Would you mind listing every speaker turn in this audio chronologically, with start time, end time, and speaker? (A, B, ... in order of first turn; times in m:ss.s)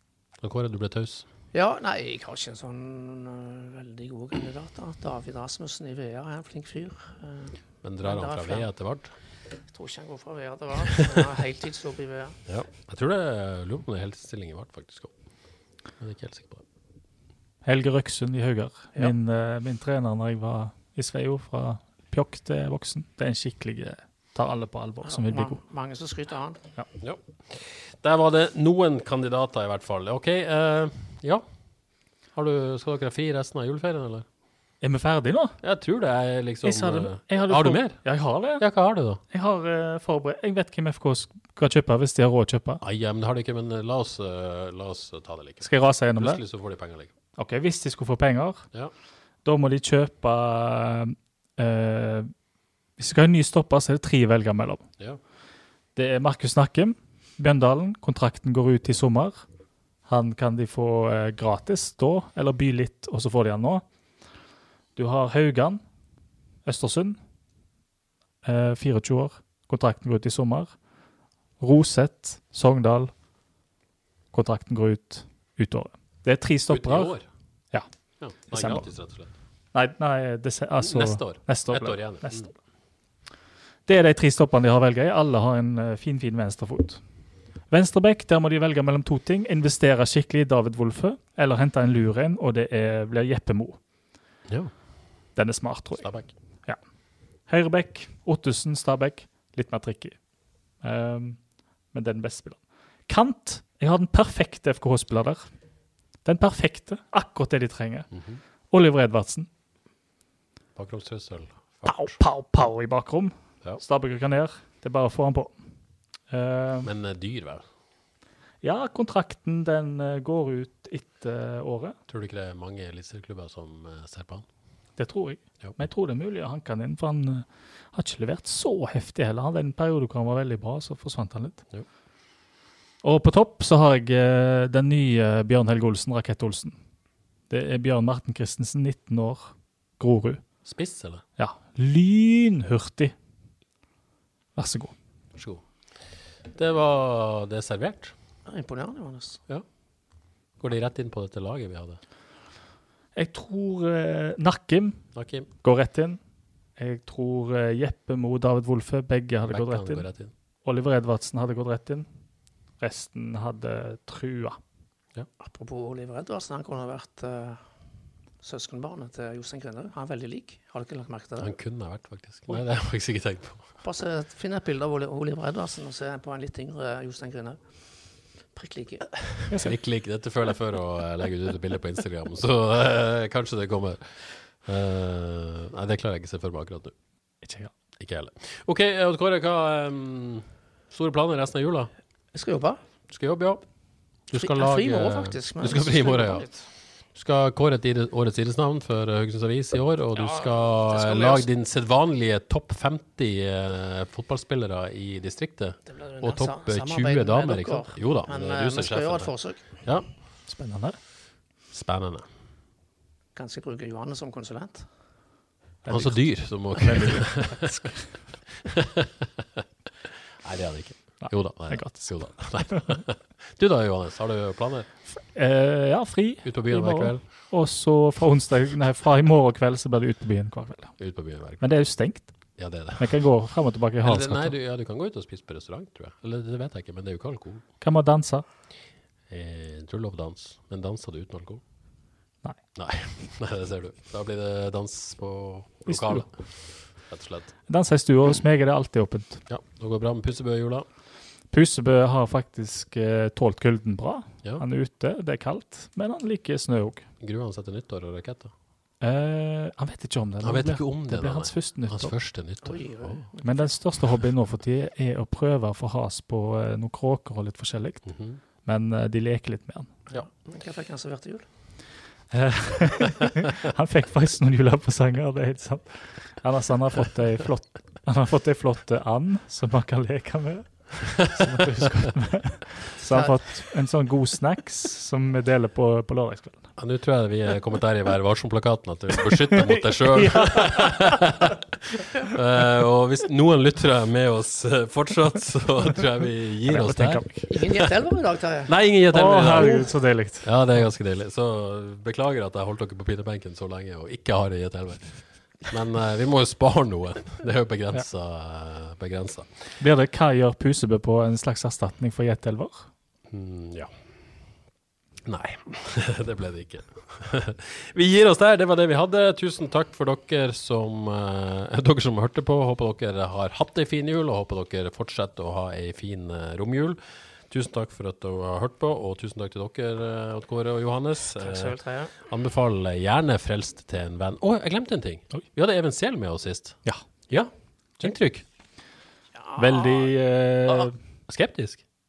0:00.4-0:01.3 A
0:01.5-0:08.7 B
0:07.8-0:09.1 A
0:09.7-0:12.4 B
0:12.5-0:15.2 A
0:15.9-0:16.6 A
0:17.6-0:25.6 C
0:25.0-0:26.7 B
0:27.0-0:31.4 A
0:32.3-0:34.3 A
0:34.8-0:35.6 C
0:35.6-0:39.2 A
0:36.6-0:38.7 C
0:39.2-0:42.8 C
0:42.8-0:47.1 A
0:45.6-0:46.4 C
0:47.4-0:48.7 C
0:49.4-0:52.3 C
0:53.0-0:54.9 C
0:56.0-0:59.4 C
1:00.1-1:03.8 C
1:05.0-1:05.8 C
1:06.6-1:07.2 C
1:08.4-1:10.8 C
1:11.6-1:13.1 C
1:14.3-1:17.2 C
1:16.7-1:17.3 A
1:18.2-1:19.3 A
1:18.4-1:18.9 C
1:19.7-1:22.6 C
1:20.8-1:22.5 A
1:23.9-1:27.0 C
1:27.7-1:33.8 C
1:34.5-1:34.7 A
1:35.4-1:36.8 C
1:36.0-1:36.3 A
1:37.5-1:40.2 C
1:40.8-1:45.5 C
1:46.2-1:48.1 C
1:48.1-1:48.4 A
1:48.7-1:49.5 C
1:50.8-1:52.2 A
1:51.8-1:55.6 C
1:56.3-1:56.9 C
1:56.8-1:57.6 A
1:58.6-2:02.0 C
2:02.1-2:04.5 A
2:05.0-2:11.6 C
2:13.0-2:16.8 C
2:17.5-2:20.6 C
2:20.6-2:21.2 A
2:21.4-2:23.1 C
2:24.6-2:25.0 C
2:25.3-2:25.6 A
2:26.5-2:28.2 A
2:28.5-2:29.4 B
2:30.6-2:32.0 A
2:33.2-2:36.2 C
2:35.1-2:35.5 A
2:36.8-2:40.1 C
2:39.5-2:40.3 A
2:40.6-2:42.1 C
2:42.8-2:44.6 C
2:45.4-2:47.7 B
2:48.4-2:51.6 B
2:51.4-2:53.7 A
2:53.8-2:59.3 B
2:59.5-3:06.9 A
3:07.4-3:07.7 C
3:08.0-3:11.9 A
3:12.3-3:12.8 B
3:13.1-3:13.6 A
3:14.3-3:16.5 A
3:14.3-3:16.7 B
3:17.1-3:30.1 A
3:20.2-3:21.5 B
3:25.9-3:29.9 B
3:30.5-3:31.0 C
3:31.7-3:32.3 A
3:33.4-3:34.9 B
3:35.8-3:37.8 C
3:35.9-3:39.6 A
3:40.4-3:44.9 A
3:41.2-3:43.0 C
3:45.1-3:54.6 C
3:46.4-3:47.2 A
3:51.0-3:51.8 A
3:52.6-3:53.2 A
3:54.0-3:57.6 A
3:57.8-3:58.5 C
3:59.3-4:01.6 A
4:02.8-4:07.5 A
4:05.9-4:06.3 C
4:07.7-4:09.4 C
4:09.5-4:10.9 A
4:11.5-4:17.1 C
4:17.2-4:18.5 A
4:19.0-4:22.2 C
4:20.4-4:23.3 A
4:22.6-4:23.8 B
4:23.4-4:30.0 C
4:28.1-4:28.4 A
4:30.1-4:31.5 B
4:32.3-4:46.7 C
4:43.1-4:43.5 B
4:46.8-4:51.6 A
4:50.1-4:51.2 C
4:52.3-4:57.9 A
4:56.7-4:57.4 C
4:57.5-4:58.9 B
4:58.7-5:09.5 A
4:59.1-5:00.9 C
4:59.6-4:59.8 B
5:09.8-5:12.9 C
5:13.3-5:13.9 A
5:15.2-5:38.4 A
5:31.4-5:32.1 B
5:36.8-5:37.3 C
5:39.3-5:40.1 B
5:39.6-5:41.0 C
5:40.7-5:41.8 A